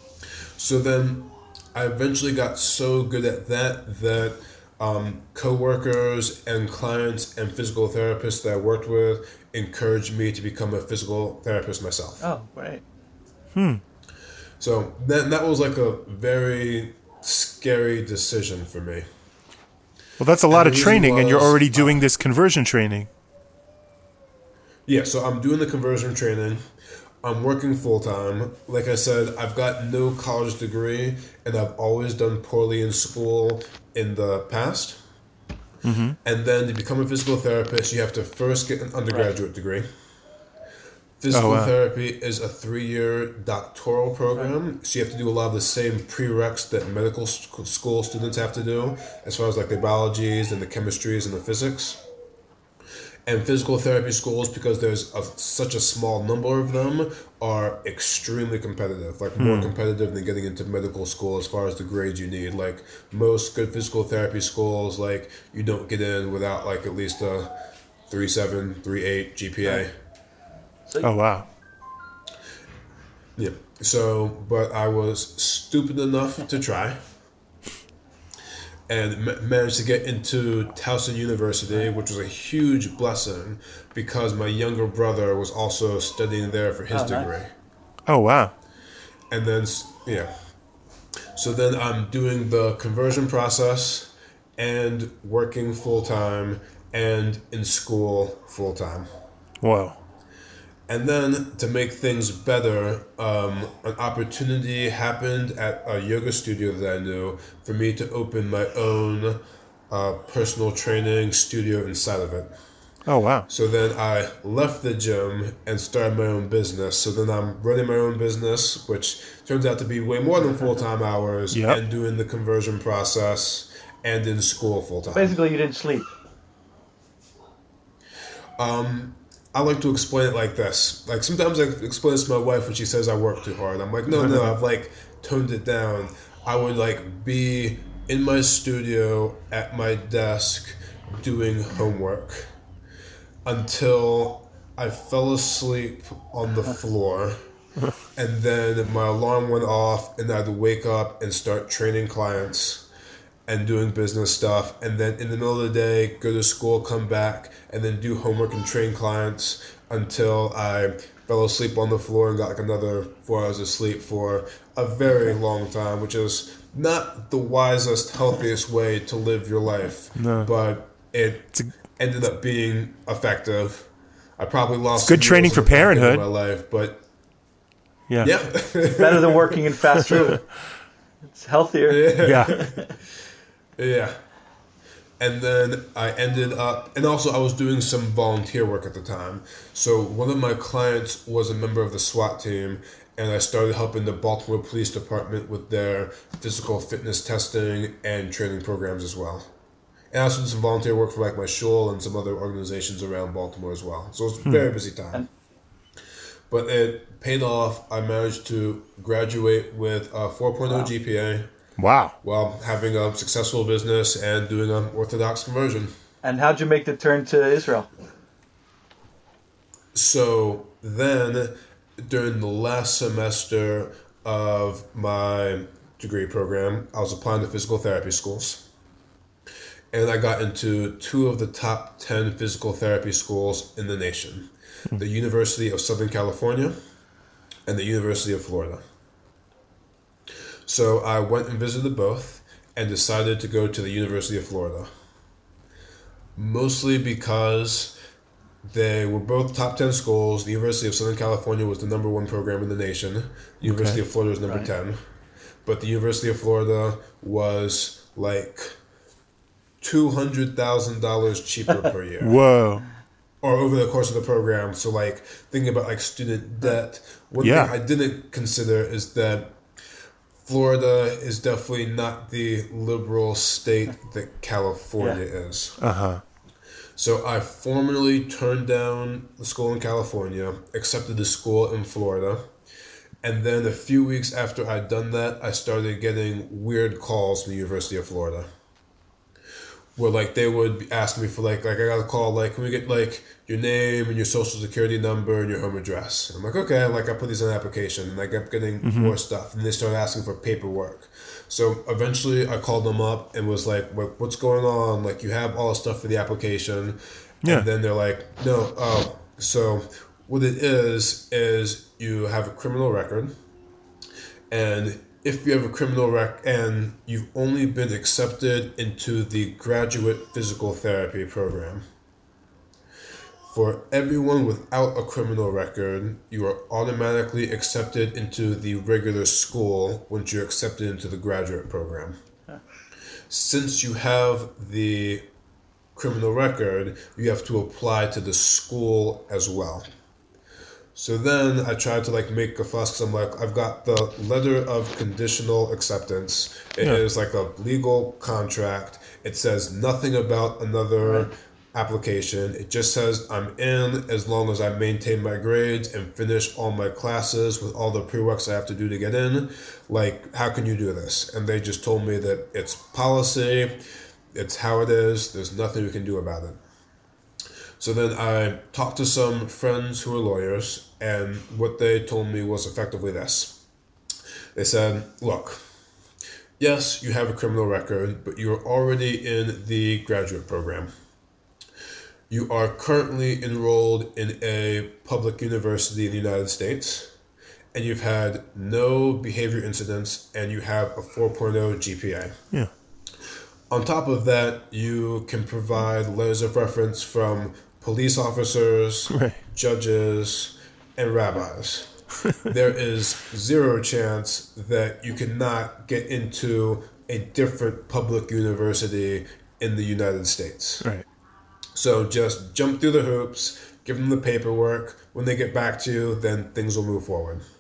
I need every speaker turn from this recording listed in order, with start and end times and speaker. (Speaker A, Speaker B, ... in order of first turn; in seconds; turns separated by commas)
Speaker A: 0.6-12.2, Speaker B: 12.2-12.8, Speaker C: 13.6-13.8, Speaker A: 14.6-19.1, Speaker C: 20.2-23.1, Speaker A: 20.5-22.0, Speaker A: 24.9-26.7, Speaker A: 27.2-35.0, Speaker C: 35.8-36.2, Speaker A: 36.2-39.9, Speaker A: 41.2-52.0, Speaker C: 41.3-41.7, Speaker A: 53.3-67.5, Speaker C: 59.4-59.7, Speaker A: 68.1-69.9, Speaker C: 71.0-71.5, Speaker A: 73.4-77.0, Speaker A: 78.9-87.5, Speaker B: 86.9-87.3, Speaker C: 88.1-88.5, Speaker A: 89.3-90.3, Speaker A: 91.3-99.1, Speaker C: 99.6-100.0, Speaker A: 100.9-112.5, Speaker C: 113.1-113.5, Speaker A: 113.5-125.4, Speaker C: 121.5-121.8, Speaker B: 125.1-126.1, Speaker A: 128.6-142.5, Speaker C: 134.1-134.5, Speaker A: 143.4-147.4, Speaker A: 148.2-152.9, Speaker A: 153.5-177.0, Speaker C: 170.2-170.5, Speaker C: 175.0-176.2, Speaker A: 178.2-180.3, Speaker B: 178.9-180.4, Speaker B: 181.3-182.9, Speaker A: 181.9-182.8, Speaker C: 182.2-182.6, Speaker A: 183.8-184.2, Speaker A: 185.2-199.5, Speaker A: 200.1-205.2, Speaker A: 206.5-211.5, Speaker C: 211.8-212.2, Speaker A: 212.2-215.9, Speaker B: 216.2-217.9, Speaker A: 219.9-228.7, Speaker A: 229.9-236.8, Speaker A: 237.7-238.8, Speaker A: 240.7-244.9, Speaker A: 246.3-248.0, Speaker A: 248.6-255.0, Speaker C: 253.6-254.0, Speaker A: 255.7-258.8, Speaker A: 259.8-262.4, Speaker C: 262.2-262.9, Speaker A: 263.4-269.6, Speaker C: 267.4-267.7, Speaker A: 270.4-275.8, Speaker C: 275.8-276.2, Speaker A: 277.0-282.5, Speaker A: 283.2-288.5, Speaker A: 290.0-313.4, Speaker C: 298.8-299.2, Speaker A: 314.5-321.9, Speaker A: 323.5-332.2, Speaker A: 333.3-335.3, Speaker A: 335.9-339.9, Speaker A: 340.9-366.6, Speaker B: 351.0-351.3, Speaker A: 367.8-373.6, Speaker A: 374.6-375.6, Speaker A: 376.6-380.9, Speaker A: 382.3-387.1, Speaker A: 387.7-392.4, Speaker A: 393.7-401.9, Speaker C: 399.1-399.4, Speaker A: 402.5-410.9, Speaker A: 411.7-417.4